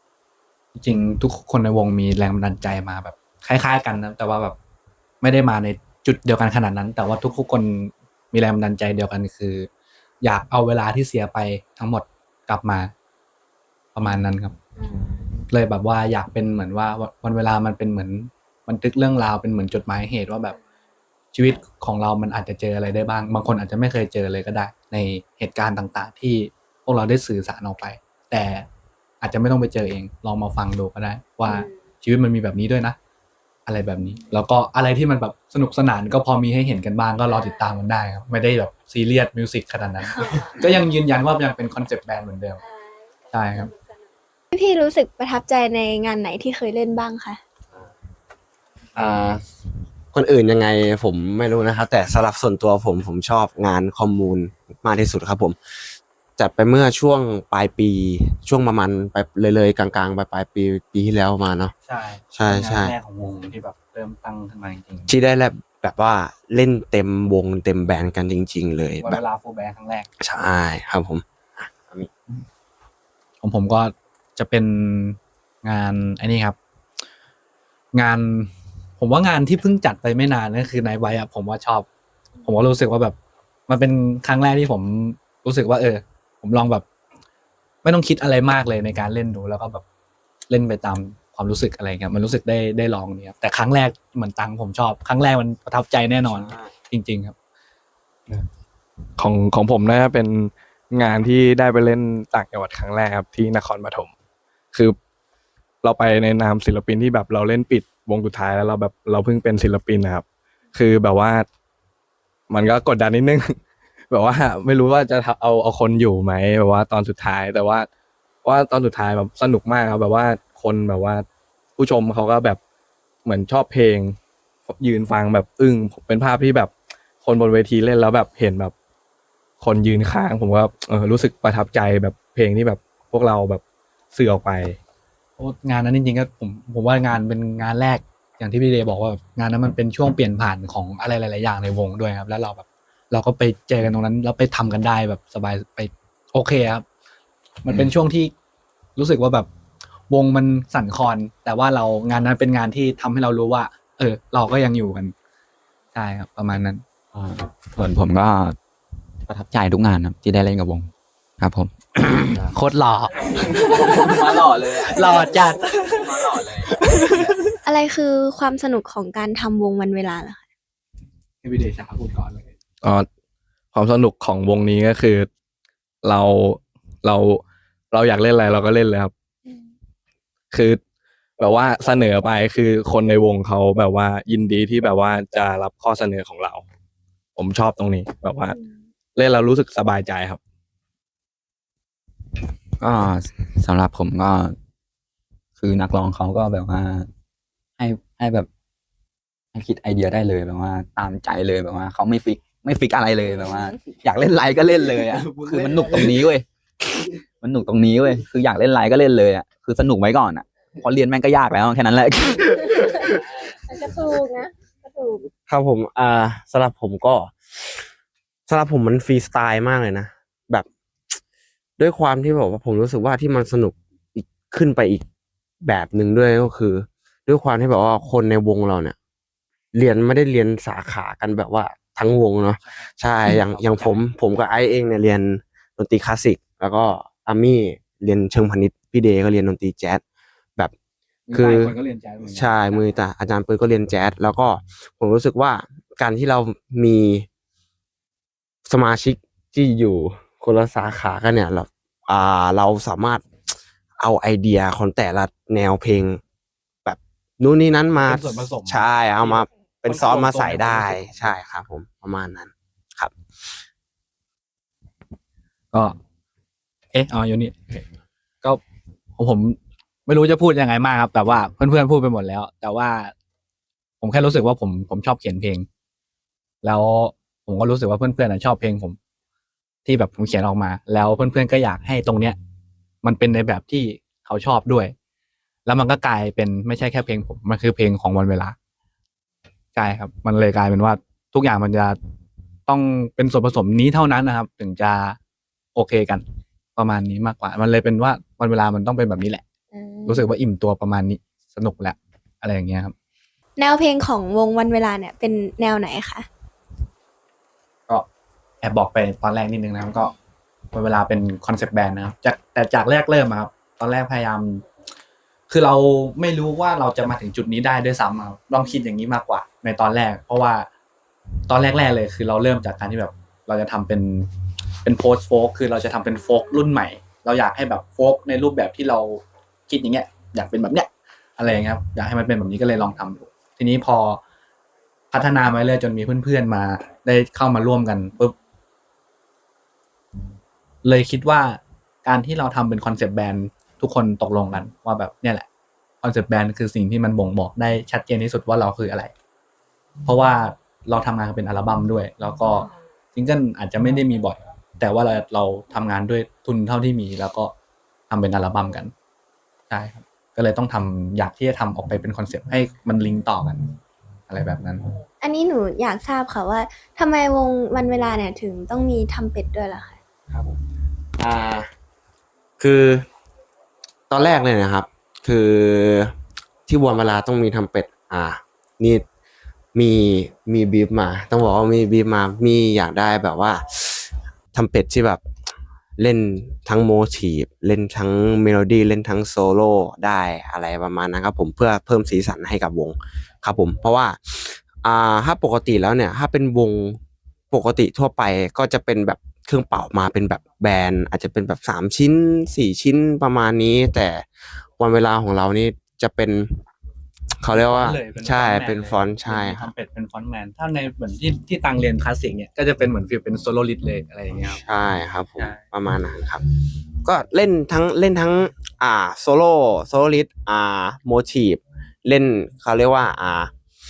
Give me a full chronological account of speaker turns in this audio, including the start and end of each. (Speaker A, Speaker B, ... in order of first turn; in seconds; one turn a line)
Speaker A: 0.8-4.5
Speaker A: 5.2-9.7
Speaker A: 10.2-12.9
Speaker A: 13.9-14.5
Speaker B: 14.8-15.3
Speaker A: 15.5-20.6
Speaker A: 21.3-28.7
Speaker A: 29.2-33.0
Speaker A: 33.6-42.6
Speaker B: 40.1-40.7
Speaker A: 43.3-43.7
Speaker B: 44.5-47.4
Speaker C: 48.9-49.4
Speaker C: 50.1-55.8
Speaker C: 56.4-61.7
Speaker A: 61.9-65.1
Speaker C: 62.3-62.9
Speaker C: 65.1-69.2
Speaker A: 69.0-70.1
Speaker C: 70.2-72.1
Speaker A: 73.4-76.6
Speaker A: 77.9-81.9
Speaker A: 82.4-83.1
Speaker A: 83.7-86.8
Speaker A: 87.8-89.8
Speaker A: 90.5-97.3
Speaker C: 96.2-96.7
Speaker D: 99.2-104.1
Speaker D: 105.8-111.5
Speaker E: 112.5-113.5
Speaker D: 112.5-113.1
Speaker D: 114.1-115.0
Speaker E: 114.3-115.6
Speaker D: 115.6-117.7
Speaker D: 118.4-121.1
Speaker E: 118.5-119.2
Speaker E: 120.1-120.5
Speaker D: 121.8-122.6
Speaker D: 123.2-124.1
Speaker E: 123.2-124.1
Speaker E: 124.8-126.6
Speaker D: 124.8-126.7
Speaker D: 127.2-128.7
Speaker D: 129.6-133.6
Speaker E: 130.6-130.9
Speaker E: 131.6-132.3
Speaker D: 134.1-134.8
Speaker A: 135.4-146.8
Speaker A: 147.6-148.3
Speaker A: 148.9-149.5
Speaker A: 150.1-155.1
Speaker A: 155.9-156.8
Speaker E: 157.1-158.6
Speaker E: 159.3-162.5
Speaker A: 162.5-164.2
Speaker E: 163.8-167.3
Speaker A: 164.8-167.3
Speaker B: 167.6-170.4
Speaker A: 171.4-172.5
Speaker D: 173.7-175.3
Speaker D: 176.0-177.2
Speaker E: 176.0-179.1
Speaker E: 180.5-180.8
Speaker E: 181.4-182.9
Speaker D: 182.7-186.6
Speaker E: 184.6-186.0
Speaker D: 187.3-188.3
Speaker E: 187.4-188.5
Speaker D: 189.1-190.4
Speaker E: 190.1-190.3
Speaker E: 192.8-194.6
Speaker E: 195.6-197.1
Speaker E: 197.8-198.5
Speaker E: 199.5-212.6
Speaker B: 212.7-215.3
Speaker C: 215.5-217.9
Speaker C: 218.5-221.1
Speaker C: 221.8-225.0
Speaker C: 225.6-228.9
Speaker C: 229.7-240.0
Speaker A: 232.7-234.1
Speaker A: 241.3-242.9
Speaker C: 241.3-247.3
Speaker C: 248.7-253.2
Speaker C: 254.0-256.2
Speaker C: 256.8-263.6
Speaker A: 257.9-261.2
Speaker A: 265.7-266.0
Speaker A: 266.9-267.8
Speaker A: 269.2-273.1
Speaker A: 274.0-275.7
Speaker A: 276.6-279.0
Speaker A: 279.8-282.4
Speaker A: 283.0-284.9
Speaker A: 285.6-288.6
Speaker A: 289.7-292.0
Speaker A: 292.7-295.2
Speaker A: 295.7-296.2
Speaker A: 296.8-299.4
Speaker B: 299.7-300.3
Speaker A: 300.1-302.9
Speaker B: 303.6-306.3
Speaker A: 308.6-310.1
Speaker A: 310.7-314.6
Speaker A: 315.5-320.7
Speaker A: 321.5-324.3
Speaker A: 324.8-334.2
Speaker A: 335.1-338.3
Speaker A: 340.8-345.5
Speaker A: 346.0-349.1
Speaker A: 350.0-357.5
Speaker A: 358.1-358.9
Speaker A: 359.7-363.6
Speaker A: 364.3-364.9
Speaker B: 365.2-370.0
Speaker C: 371.2-371.7
Speaker C: 372.6-373.1
Speaker C: 374.1-376.1
Speaker C: 376.7-379.0
Speaker C: 379.7-385.2
Speaker C: 386.0-397.0
Speaker C: 397.5-404.2
Speaker C: 404.8-406.6
Speaker C: 407.4-409.7
Speaker A: 407.5-414.6
Speaker C: 414.4-416.4
Speaker C: 417.0-423.5